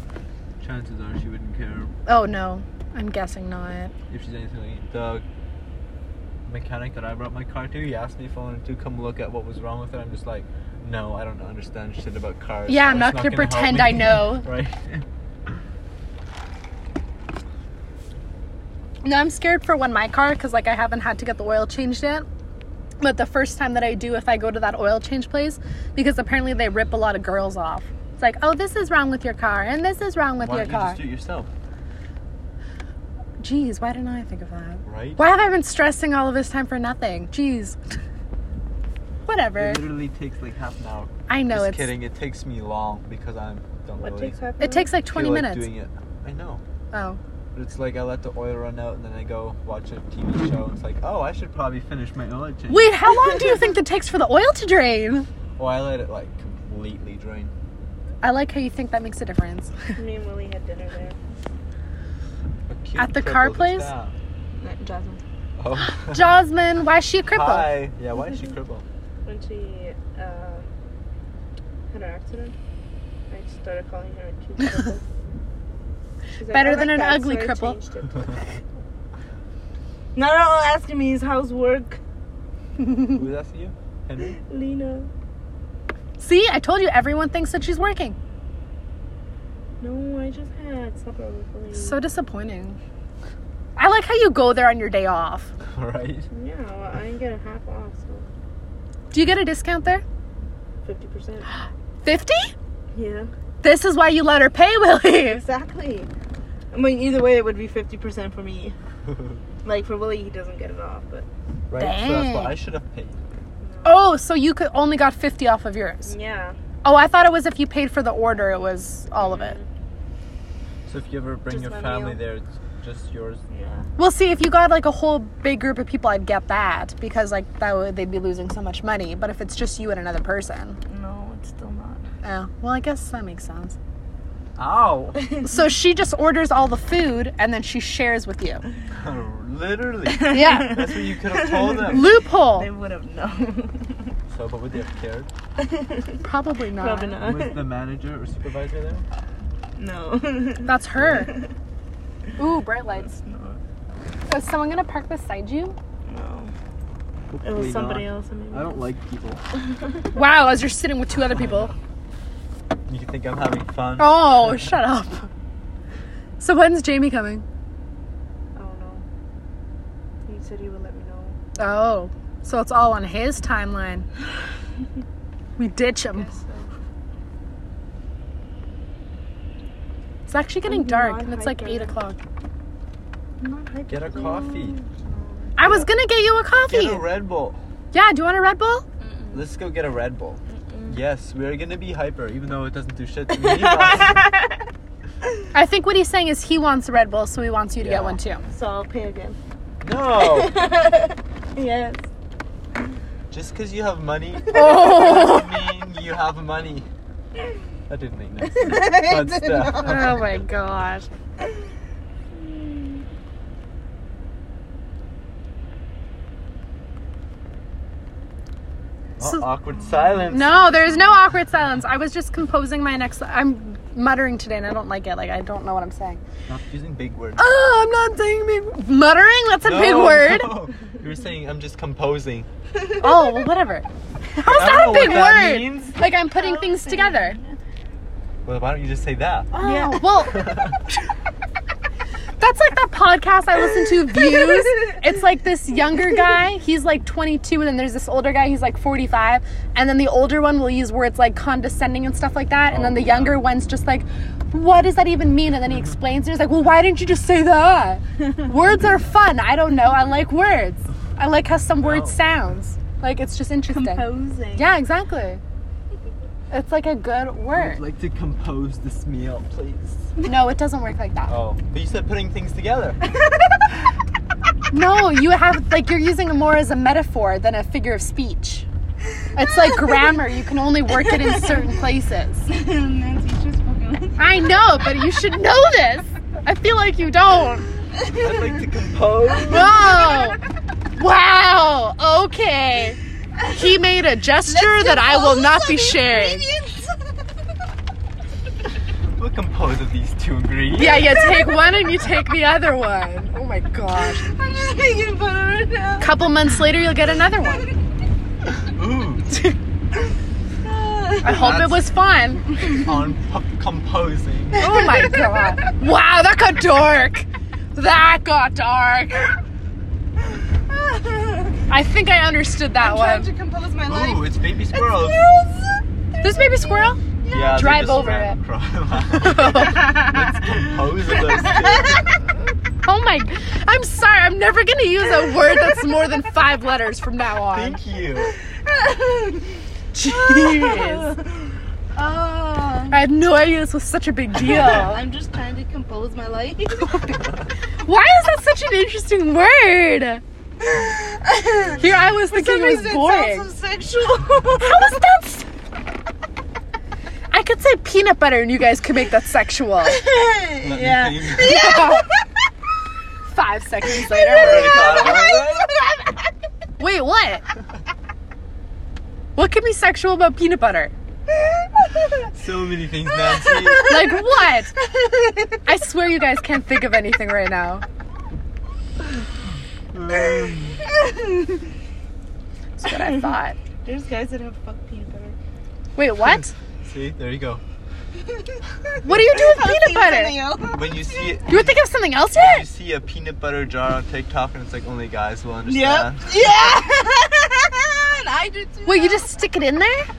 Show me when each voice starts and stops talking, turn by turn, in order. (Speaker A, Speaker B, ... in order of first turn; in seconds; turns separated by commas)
Speaker A: 0.6-1.9, Speaker B: 2.1-3.9, Speaker A: 4.1-5.2, Speaker A: 6.5-15.6, Speaker B: 12.7-14.5, Speaker B: 19.0-22.3, Speaker B: 23.0-31.0, Speaker A: 30.4-31.5, Speaker B: 33.4-37.8, Speaker A: 34.9-35.2, Speaker B: 39.3-39.9, Speaker A: 39.5-44.4, Speaker B: 41.3-41.9, Speaker C: 44.0-44.9, Speaker B: 44.6-45.7, Speaker A: 45.1-46.6, Speaker B: 46.9-47.2, Speaker A: 47.5-52.9, Speaker B: 52.7-55.3, Speaker C: 53.3-53.6, Speaker A: 55.6-57.5, Speaker B: 58.2-60.0, Speaker C: 60.0-61.2, Speaker A: 62.7-64.2, Speaker B: 63.0-63.9, Speaker C: 64.6-65.2, Speaker A: 65.6-66.4, Speaker B: 65.8-67.7, Speaker A: 67.3-68.8, Speaker C: 69.2-70.7, Speaker C: 71.9-72.5, Speaker C: 73.3-75.1, Speaker C: 76.4-78.4, Speaker B: 76.5-77.8, Speaker C: 80.2-82.0, Speaker B: 82.8-83.2, Speaker A: 83.1-84.4, Speaker C: 84.5-85.1, Speaker B: 86.2-88.2, Speaker C: 89.8-92.0, Speaker B: 91.7-92.8, Speaker B: 93.8-95.5, Speaker A: 95.6-96.3, Speaker C: 96.3-98.3, Speaker B: 99.1-100.0, Speaker C: 100.8-101.5, Speaker B: 102.0-102.5, Speaker C: 102.9-103.3, Speaker B: 103.6-105.4, Speaker C: 105.2-106.1, Speaker C: 106.7-108.8, Speaker A: 109.0-109.4, Speaker C: 109.6-111.3, Speaker A: 111.7-113.2, Speaker B: 111.8-112.6, Speaker C: 113.6-114.0, Speaker B: 113.8-116.1, Speaker C: 116.0-116.6, Speaker B: 116.8-119.6, Speaker C: 119.2-119.7, Speaker A: 120.9-123.4, Speaker C: 121.5-122.2, Speaker C: 123.5-123.9, Speaker B: 124.0-130.8, Speaker C: 130.9-132.0, Speaker B: 132.2-133.8, Speaker A: 134.6-135.2, Speaker C: 135.2-135.5, Speaker B: 135.4-138.6, Speaker A: 138.9-142.1, Speaker C: 140.1-144.2, Speaker B: 140.3-140.8, Speaker B: 141.9-142.7, Speaker A: 144.3-145.3, Speaker C: 145.6-146.2, Speaker B: 146.2-147.2, Speaker C: 146.8-147.6, Speaker A: 147.2-149.1, Speaker C: 149.8-151.5, Speaker B: 150.7-151.3, Speaker A: 150.9-151.3, Speaker B: 152.4-153.1, Speaker C: 152.9-153.6, Speaker B: 154.3-155.8, Speaker C: 156.1-156.5, Speaker A: 157.3-159.4, Speaker C: 157.4-158.8, Speaker B: 160.2-161.7, Speaker A: 161.3-161.8, Speaker A: 162.9-164.7, Speaker B: 164.0-165.3, Speaker B: 166.4-167.4, Speaker C: 168.6-169.0, Speaker C: 170.3-171.4, Speaker B: 171.6-174.1, Speaker B: 175.6-176.3, Speaker C: 176.1-176.7, Speaker B: 180.3-182.2, Speaker C: 180.7-181.9, Speaker C: 183.4-185.6, Speaker A: 183.9-184.8, Speaker B: 185.6-187.1, Speaker A: 186.7-187.6, Speaker B: 187.9-188.8, Speaker C: 189.0-189.5, Speaker A: 189.3-194.3, Speaker C: 190.5-191.0, Speaker C: 193.3-194.6, Speaker B: 195.5-198.4, Speaker A: 197.8-198.2, Speaker C: 198.5-199.4, Speaker A: 199.8-200.6, Speaker C: 200.1-202.0, Speaker A: 203.3-206.9, Speaker B: 204.5-205.6, Speaker A: 207.9-210.4, Speaker C: 208.5-210.1, Speaker B: 209.8-211.1, Speaker C: 212.3-213.1, Speaker A: 219.2-220.5, Speaker C: 219.7-221.2, Speaker B: 220.3-226.2, Speaker A: 226.5-227.4, Speaker B: 227.4-230.6, Speaker A: 229.6-232.5, Speaker C: 232.8-233.4, Speaker B: 233.0-237.4, Speaker A: 234.4-235.9, Speaker C: 236.0-237.5, Speaker A: 238.4-239.5, Speaker C: 239.5-240.1, Speaker B: 239.5-240.6, Speaker A: 240.3-240.8, Speaker B: 242.4-265.4, Speaker A: 252.7-253.4, Speaker A: 261.7-262.2, Speaker C: 263.7-264.7, Speaker B: 266.5-267.8, Speaker A: 267.5-270.1, Speaker B: 270.2-271.3, Speaker A: 271.3-273.0, Speaker C: 273.1-273.6, Speaker B: 274.7-278.7, Speaker B: 279.4-282.5, Speaker C: 279.4-280.2, Speaker C: 280.9-281.7, Speaker C: 282.5-284.9, Speaker B: 284.2-287.7, Speaker C: 287.9-288.6, Speaker A: 288.2-289.9, Speaker C: 289.3-290.3, Speaker B: 289.5-290.4, Speaker B: 291.0-296.5, Speaker C: 294.5-297.2, Speaker A: 299.2-301.2, Speaker B: 300.8-304.2, Speaker C: 301.2-301.6, Speaker C: 304.0-306.6, Speaker B: 306.0-307.7, Speaker C: 307.4-307.7, Speaker A: 308.5-309.3, Speaker B: 309.3-309.6, Speaker C: 310.6-311.5, Speaker B: 311.2-312.5, Speaker A: 311.3-311.9, Speaker A: 312.5-314.9, Speaker B: 314.6-319.4, Speaker C: 314.7-315.6, Speaker C: 320.2-321.7, Speaker B: 321.7-323.3, Speaker C: 322.8-328.2, Speaker A: 323.8-325.2, Speaker B: 326.2-327.0, Speaker A: 327.3-332.1, Speaker B: 327.6-328.4, Speaker B: 329.2-330.0, Speaker C: 329.5-332.2, Speaker B: 332.8-337.8, Speaker A: 337.5-338.4, Speaker C: 338.2-343.0, Speaker B: 339.9-341.1, Speaker B: 342.9-345.0, Speaker C: 344.4-347.2, Speaker B: 347.8-350.2, Speaker C: 350.6-354.9, Speaker A: 351.6-352.2, Speaker B: 351.8-353.5, Speaker B: 354.6-355.5, Speaker B: 357.3-360.0, Speaker C: 359.9-362.2, Speaker A: 360.6-361.7, Speaker B: 361.4-362.1, Speaker B: 363.3-365.2, Speaker C: 364.1-366.3, Speaker A: 364.3-365.7, Speaker B: 366.8-367.4, Speaker B: 369.4-370.9, Speaker C: 371.4-372.3, Speaker A: 372.3-373.9, Speaker C: 373.2-375.6, Speaker B: 373.9-374.8, Speaker B: 375.6-377.8, Speaker A: 379.9-380.8, Speaker C: 380.8-381.7, Speaker B: 382.8-383.6, Speaker C: 382.9-383.3, Speaker C: 383.8-385.4, Speaker B: 386.0-386.5, Speaker A: 386.2-387.6, Speaker C: 388.2-391.4, Speaker B: 389.0-390.4, Speaker A: 390.7-396.5, Speaker B: 391.5-392.7, Speaker C: 395.7-399.3, Speaker B: 398.9-400.1